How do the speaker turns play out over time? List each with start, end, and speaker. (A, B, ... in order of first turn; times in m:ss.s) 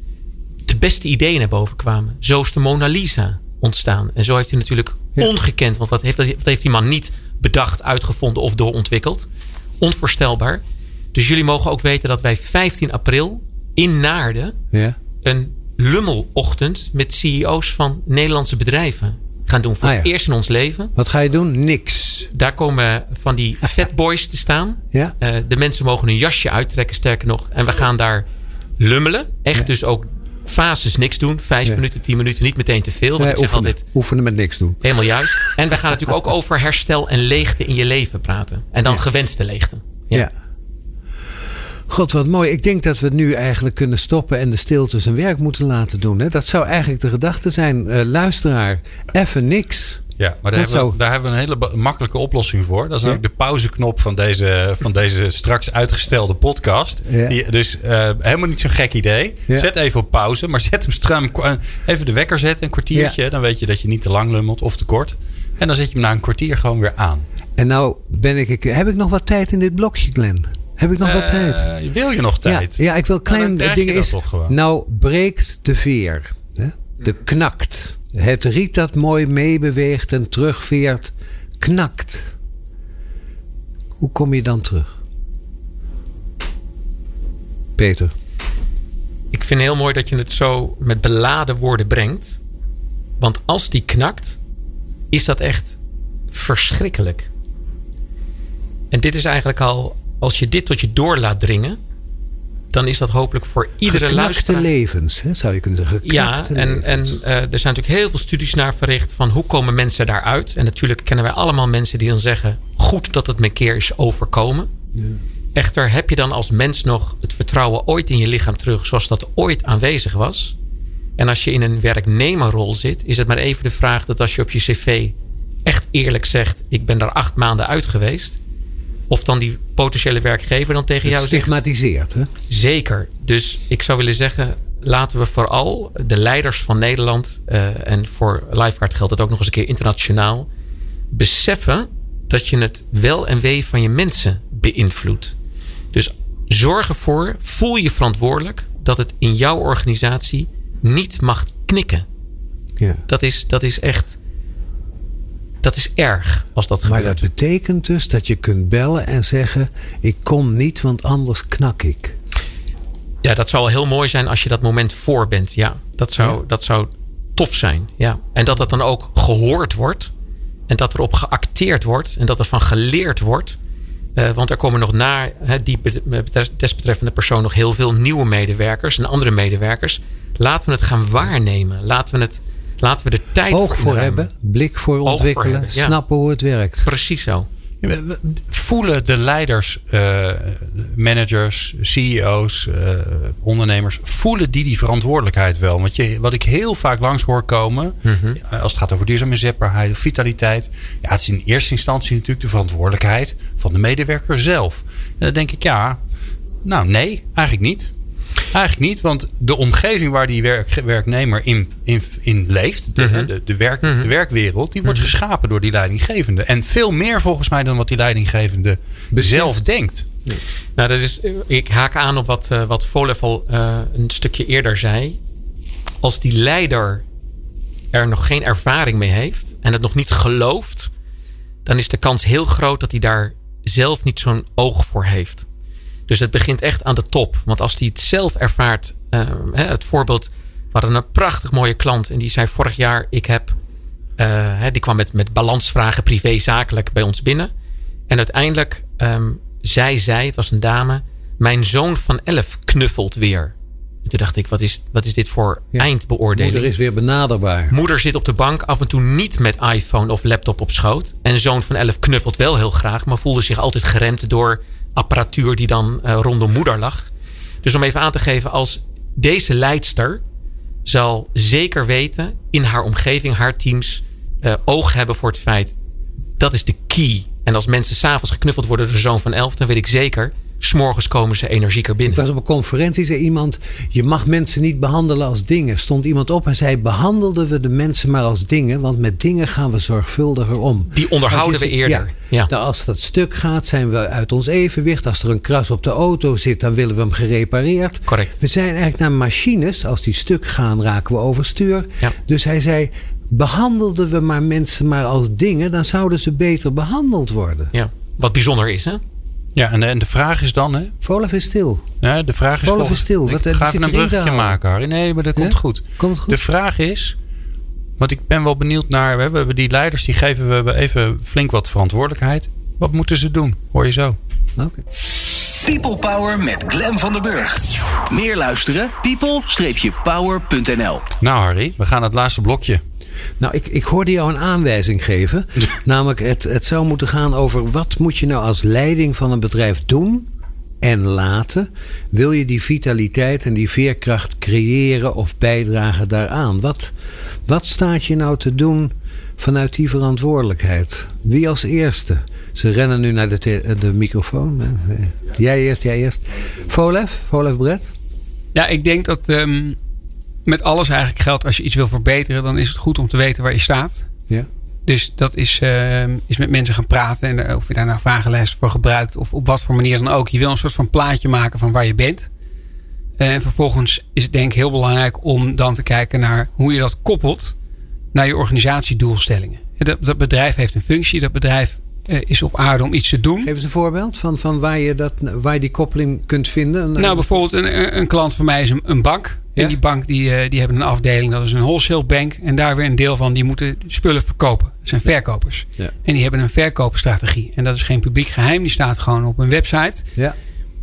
0:00.6-0:09.3 A
0:09.8-0:10.6 A
0:11.1-0:14.6 A
0:15.2-0:20.9 A
0:19.8-0:20.1 B
0:21.0-0:22.3 B
0:22.3-0:28.2 A
0:28.8-0:33.8 A
0:33.2-0:34.8 B
0:34.8-0:40.2 A
0:41.9-0:51.0 B
0:50.2-1:07.2 C
0:57.1-0:57.4 B
1:07.6-1:11.6 B
1:11.0-1:14.5 C
1:12.4-1:22.3 B
1:24.0-1:25.0 B
1:27.8-1:28.1 B
1:29.3-1:32.4 A
1:33.2-1:34.4 A
1:35.1-1:35.8 A
1:36.3-1:37.3 A
1:38.9-1:41.8 A
1:42.7-1:44.7 A
1:43.8-1:47.2 B
1:46.0-1:54.7 A
1:55.5-2:00.5 A
2:01.2-2:05.1 A
2:05.6-2:08.4 A
2:09.1-2:11.5 A
2:11.0-2:12.3 B
2:12.5-2:20.5 A
2:21.1-2:25.3 A
2:25.9-2:32.0 A
2:33.1-2:34.2 A
2:35.6-2:37.2 A
2:36.8-2:42.2 B
2:43.2-2:50.1 A
2:50.7-2:53.6 A
2:54.2-3:04.3 A
3:03.5-3:06.9 B
3:05.0-3:05.9 A
3:06.8-3:07.5 A
3:07.8-3:26.0 C
3:18.0-3:18.4 A
3:26.6-3:27.9 C
3:28.5-3:40.1 C
3:33.0-3:33.3 A
3:33.8-3:34.1 A
3:34.8-3:35.1 A
3:39.1-3:39.5 B
3:40.8-3:45.2 A
3:46.0-3:47.0 A
3:47.9-3:50.9 A
3:51.6-3:55.4 A
3:56.1-4:03.5 A
4:04.2-4:07.5 A
4:08.1-4:13.5 A
4:14.0-4:16.7 A
4:15.7-4:17.8 B
4:17.7-4:27.1 A
4:27.6-4:30.2 A
4:30.8-4:35.7 A
4:36.4-4:42.2 A
4:42.0-5:07.7 B
4:50.9-4:52.5 A
4:58.1-4:58.4 A
5:07.7-5:09.0 A
5:09.5-5:10.9 C
5:11.0-5:11.9 B
5:12.0-5:17.2 C
5:12.6-5:14.6 B
5:15.4-5:16.4 B
5:18.0-5:24.2 C
5:24.6-5:24.8 B
5:25.6-5:31.0 D
5:31.2-5:32.8 C
5:33.4-5:40.3 B
5:40.8-5:46.9 B
5:47.4-5:57.9 B
5:58.5-5:59.8 E
6:00.4-6:04.1 E
6:04.8-6:12.3 E
6:13.2-6:17.6 E
6:18.1-6:23.5 E
6:23.4-6:27.4 B
6:27.0-6:40.0 E